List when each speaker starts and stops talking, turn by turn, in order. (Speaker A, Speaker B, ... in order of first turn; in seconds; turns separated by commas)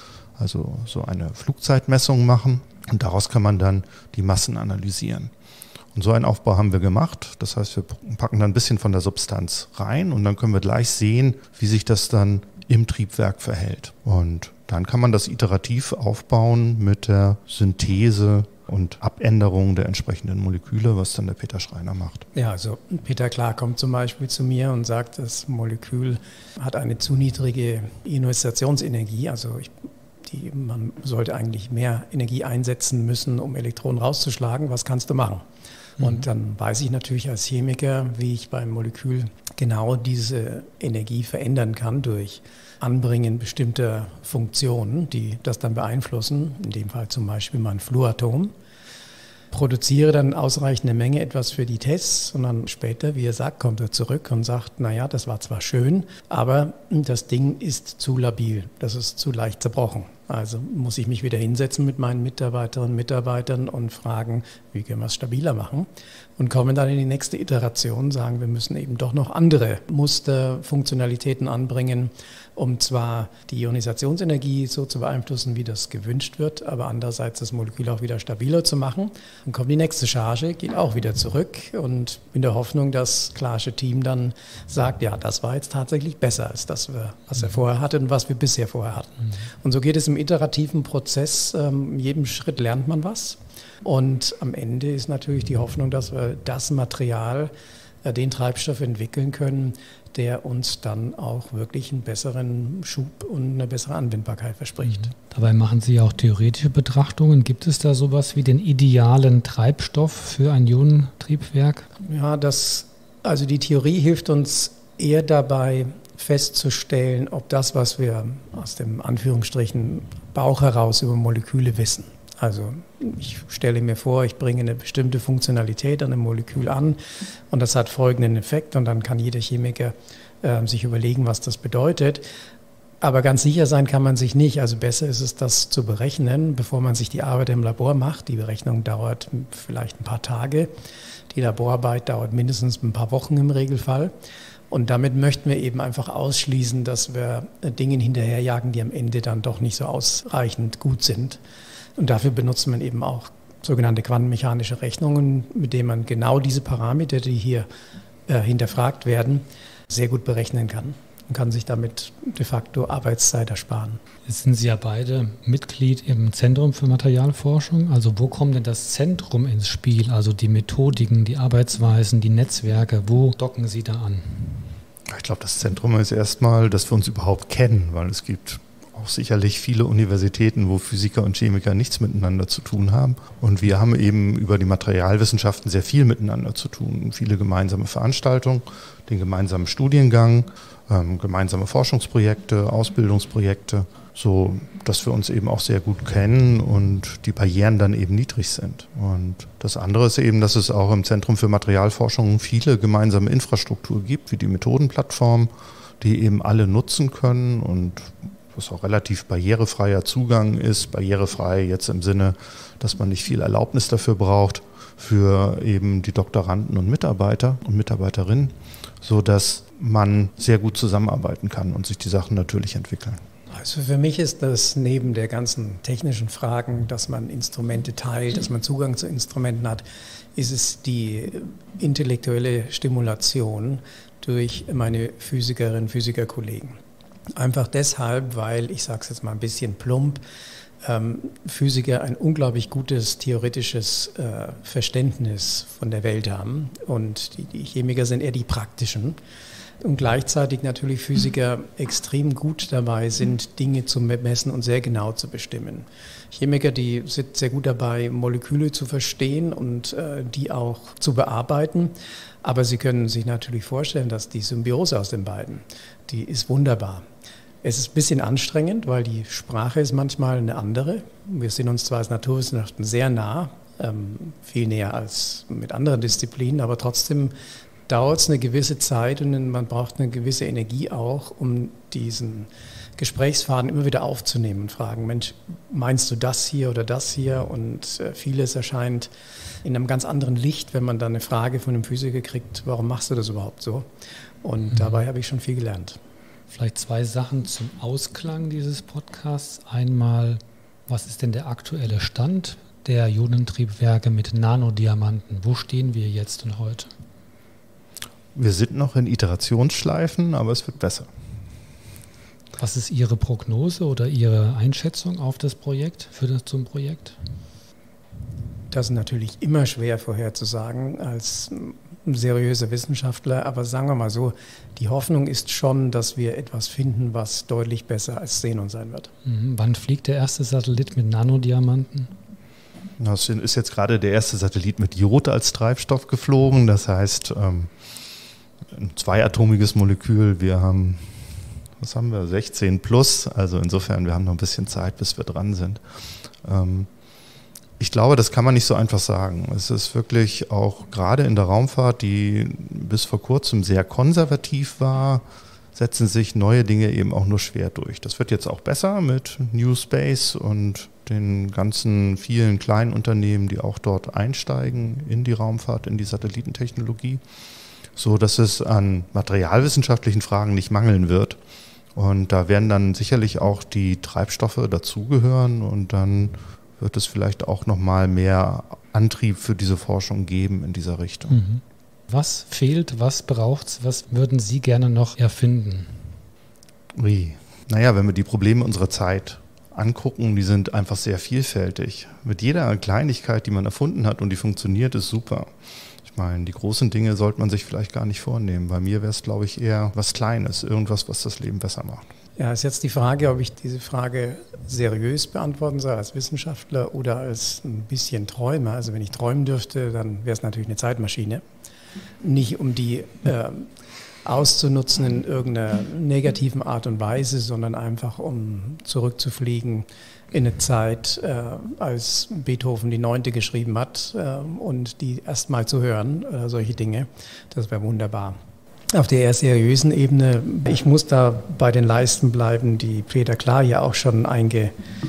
Speaker A: 0.4-5.3, Speaker A: 5.9-22.2, Speaker B: 22.3-29.7, Speaker B: 30.2-35.4, Speaker B: 36.0-48.5, Speaker B: 49.5-97.5, Speaker B: 98.0-105.1, Speaker C: 105.0-111.9, Speaker B: 112.0-127.0, Speaker B: 127.5-132.2, Speaker B: 133.0-140.7, Speaker B: 141.3-144.1, Speaker B: 144.7-151.4, Speaker B: 152.0-157.7, Speaker B: 158.3-164.0, Speaker C: 164.2-174.6, Speaker A: 175.1-223.2, Speaker B: 223.5-229.8, Speaker B: 230.3-236.8, Speaker B: 237.3-240.2, Speaker B: 240.8-249.2, Speaker B: 249.8-267.0, Speaker B: 267.6-277.3, Speaker B: 277.9-289.1, Speaker B: 289.6-293.9, Speaker B: 294.4-296.0, Speaker C: 296.5-306.9, Speaker A: 308.3-311.1, Speaker C: 312.6-317.2, Speaker B: 318.7-329.1, Speaker C: 329.2-332.1, Speaker A: 333.0-337.7, Speaker A: 338.7-345.8, Speaker A: 346.4-346.9, Speaker A: 347.8-355.2, Speaker A: 355.7-367.2, Speaker A: 367.9-371.4, Speaker A: 371.9-381.4, Speaker C: 381.3-386.1, Speaker A: 386.9-395.5, Speaker A: 396.0-402.1, Speaker B: 402.4-411.4, Speaker B: 412.2-413.7, Speaker B: 414.2-428.4, Speaker B: 428.9-434.7